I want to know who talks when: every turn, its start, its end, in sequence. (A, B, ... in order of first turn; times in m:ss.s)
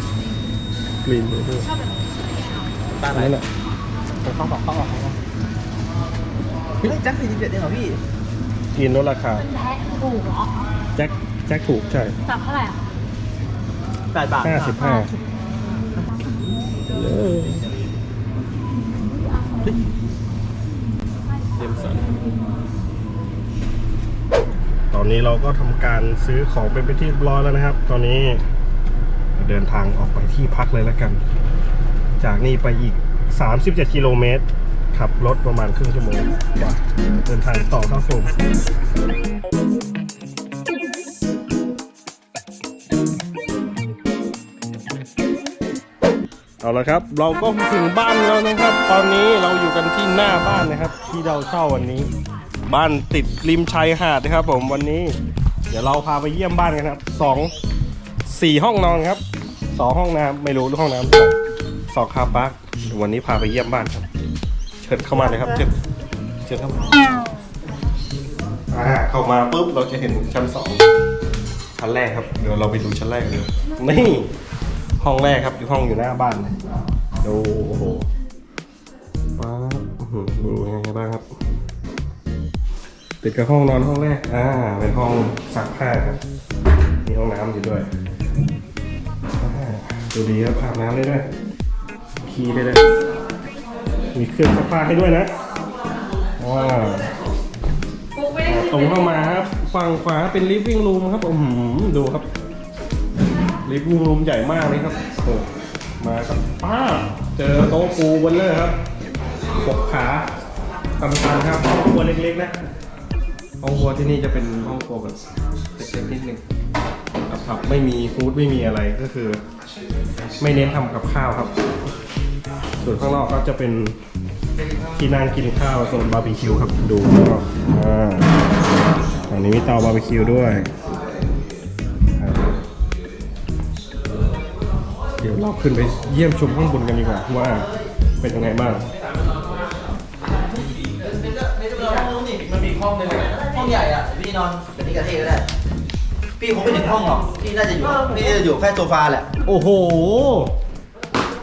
0:01.0-0:01.7 A
0:03.1-0:03.5 A
0:04.3-0:05.0 B
0:04.3-0:04.9 C
0:06.8-0:08.0 B
0:08.8-0:09.5 A
0:09.6-0:10.6 C
0:11.0-0:12.2 A
0:12.3-0:12.8 C
0:14.1-0:14.8 B
0:14.4-0:15.1 A
0:16.9-0:17.7 A
0:21.5-0:22.1 A
0:24.9-0:28.4 A
0:29.4-0:31.2 A
0:32.2-0:38.3 A
0:46.6-0:52.1 A
0:52.7-0:55.2 A
0:55.7-0:57.5 A
0:58.2-1:01.4 A
1:01.9-1:04.1 A
1:04.8-1:05.7 A
1:06.4-1:07.0 A
1:08.7-1:10.8 A
1:11.8-1:14.3 A
1:15.0-1:16.6 A
1:17.2-1:18.1 A
1:19.4-1:21.3 A
1:23.2-1:26.2 A
1:27.0-1:27.9 A
1:29.4-1:31.3 A
1:32.2-1:32.9 A
1:34.1-1:35.3 A
1:36.4-1:37.1 A
1:38.3-1:42.3 A
1:43.6-1:45.5 A
1:46.0-1:48.8 A
1:49.6-1:50.3 A
1:51.0-1:52.6 A
1:53.6-1:55.2 A
1:55.8-1:56.4 A
1:57.3-1:59.4 A
2:00.4-2:01.5 A
2:02.8-2:04.0 A
2:04.9-2:08.3 A
2:09.3-2:10.7 A
2:12.2-2:12.6 A
2:15.2-2:17.7 A
2:18.2-2:18.8 A
2:21.1-2:25.5 B
2:26.4-2:29.3 B
2:29.4-2:30.5 A